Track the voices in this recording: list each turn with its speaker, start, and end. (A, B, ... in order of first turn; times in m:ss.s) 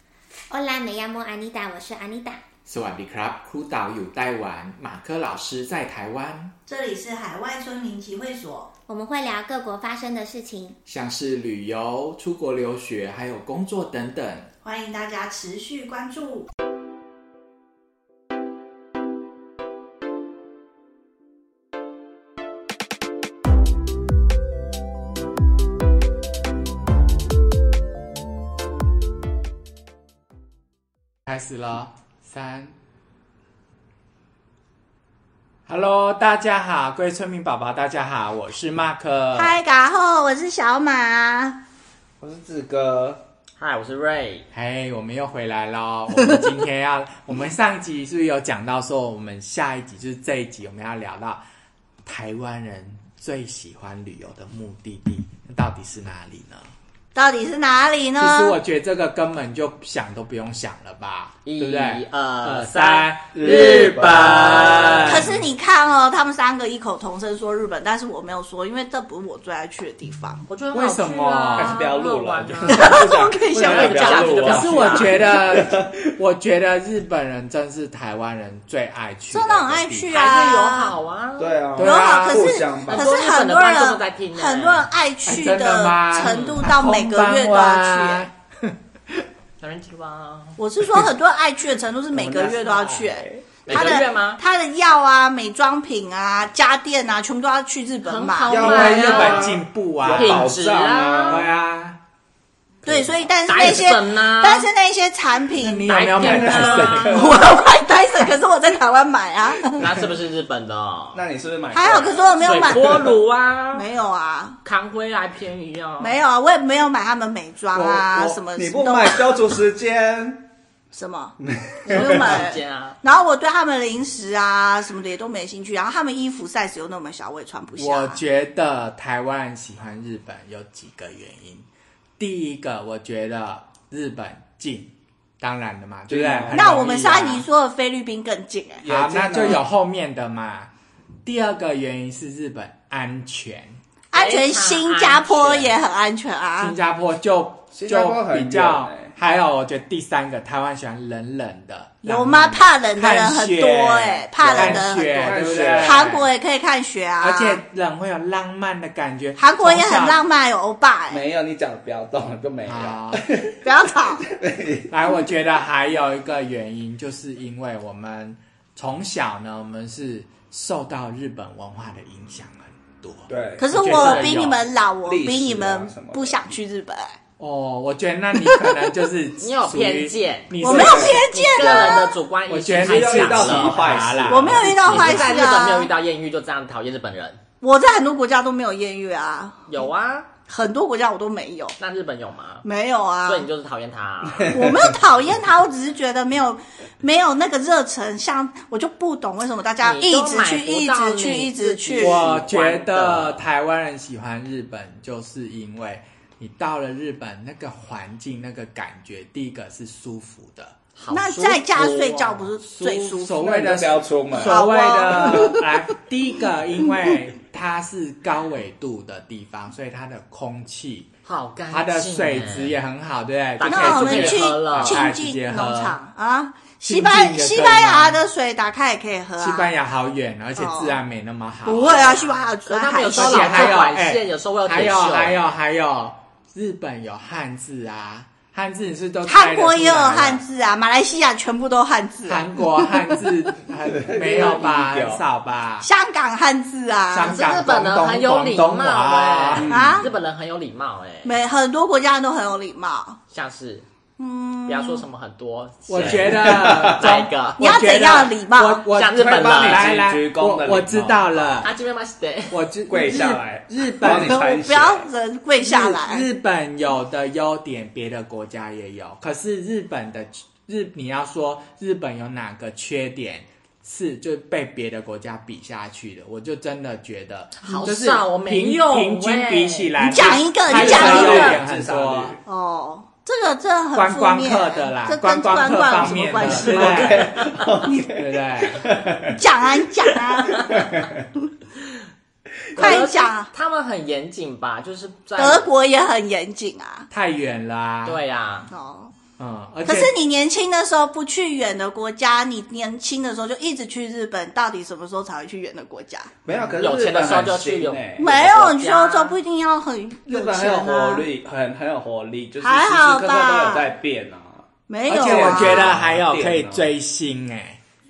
0:00.5-0:02.4 A
0:02.6-0:06.5 B
0:06.6-0:08.7 C
0:08.9-0:10.8 A
0:10.8-0:14.5 B
0:14.6-0:16.5 C
0:31.2-0:32.7 B
0:35.6-0:39.6 B
0:39.3-0:41.6 C
0:42.2-0:43.2 D
0:43.6-0:44.5 E
0:44.5-0:51.4 B
0:52.0-0:56.7 B
0:57.1-0:58.6 C
0:58.2-1:05.3 B
1:01.4-1:05.3 E
1:03.3-1:05.2 D
1:05.1-1:10.4 C
1:10.5-1:15.2 E
1:10.7-1:11.8 B
1:11.5-1:16.1 D
1:12.7-1:14.5 C
1:14.4-1:20.3 B
1:19.3-1:20.9 C
1:20.1-1:21.6 E
1:21.4-1:23.2 D
1:21.8-1:22.5 B
1:21.8-1:28.3 C
1:22.9-1:24.9 E
1:25.2-1:29.2 B
1:26.2-1:26.6 E
1:29.6-1:30.6 E
1:30.6-1:39.0 C
1:32.1-1:34.0 D
1:33.6-1:34.4 E
1:38.0-1:39.6 E
1:38.5-1:41.5 D
1:38.5-1:40.5 B
1:40.1-1:41.4 E
1:41.2-1:42.0 B
1:42.8-1:44.7 E
1:42.8-1:49.9 C
1:45.5-1:47.5 B
1:45.8-1:47.2 E
1:46.2-1:47.4 D
1:49.7-1:51.2 E
1:51.1-1:53.1 D
1:51.7-1:53.1 C
1:52.4-1:53.8 E
1:53.7-1:54.6 C
1:54.6-1:56.2 E
1:56.0-1:59.4 C
1:57.7-2:00.4 D
2:00.9-2:01.3 C
2:01.4-2:02.4 D
2:01.8-2:03.0 E
2:01.9-2:08.2 C
2:07.8-2:11.7 B
2:12.2-2:17.5 B
2:16.1-2:16.6 D
2:16.5-2:18.8 C
2:18.8-2:19.6 D
2:18.8-2:20.7 B
2:21.2-2:23.8 B
2:24.1-2:26.8 C
2:24.1-2:25.8 E
2:26.6-2:36.3 B
2:27.7-2:29.1 D
2:32.0-2:37.6 C
2:34.4-2:36.1 D
2:37.2-2:40.2 B
2:39.4-2:41.2 C
2:41.1-2:43.6 D
2:42.6-2:43.2 B
2:43.6-2:44.3 C
2:44.3-2:44.9 D
2:44.9-2:54.6 B
2:53.3-2:54.3 D
2:53.6-2:57.2 C
2:55.0-2:56.4 D
2:57.4-3:01.2 B
2:58.4-2:58.8 C
2:59.4-3:04.0 E
3:00.6-3:02.2 C
3:00.7-3:01.2 D
3:02.5-3:05.3 B
3:02.8-3:04.7 D
3:04.3-3:05.9 C
3:04.7-3:07.4 E
3:07.6-3:09.7 C
3:09.7-3:10.3 E
3:10.5-3:11.8 C
3:11.8-3:12.6 E
3:12.6-3:13.5 C
3:13.2-3:14.7 E
3:14.4-3:22.4 C
3:19.8-3:23.4 E
3:21.9-3:30.7 B
3:31.0-3:32.4 E
3:31.1-3:33.4 C
3:32.6-3:41.1 B
3:33.4-3:34.6 D
3:34.3-3:35.7 C
3:41.2-3:42.8 E
3:41.7-3:46.0 B
3:43.6-3:45.0 E
3:43.6-3:49.7 C
3:46.9-3:48.2 B
3:49.4-3:52.2 B
3:50.6-3:51.0 C
3:51.6-3:53.9 C
3:52.6-3:55.4 E
3:53.1-4:00.4 B
3:59.2-4:03.2 C
4:02.2-4:05.9 B
4:03.9-4:05.2 D
4:05.8-4:07.4 C
4:07.1-4:09.9 B
4:07.2-4:11.3 E
4:09.6-4:10.0 D
4:09.7-4:10.1 C
4:11.2-4:13.2 C
4:13.3-4:13.8 E
4:14.2-4:15.0 C
4:14.6-4:17.6 E
4:15.9-4:21.7 B
4:16.0-4:17.1 D
4:17.6-4:18.8 C
4:18.9-4:19.8 E
4:19.2-4:21.6 D
4:21.6-4:22.6 E
4:22.5-4:24.4 B
4:22.9-4:25.1 D
4:24.0-4:26.2 C
4:25.6-4:42.4 B
4:37.6-4:41.6 E
4:40.0-4:41.6 C
4:40.6-4:42.4 D
4:42.4-4:47.1 C
4:43.9-4:47.4 B
4:46.3-4:49.4 D
4:47.1-4:47.7 E
4:48.1-4:48.9 B
4:49.3-4:50.9 C
4:50.1-4:51.2 D
4:50.4-4:50.8 E
4:52.7-4:53.5 C
4:52.7-4:55.7 E
4:55.4-4:57.1 C
4:57.1-4:58.2 B
4:58.0-4:58.7 E
4:58.7-4:59.1 C
4:59.4-5:00.1 B
4:59.8-5:06.3 C
5:06.4-5:08.3 D
5:06.8-5:09.3 E
5:08.2-5:11.3 C
5:10.3-5:16.9 D
5:12.6-5:13.9 C
5:14.9-5:16.0 C
5:15.1-5:17.8 B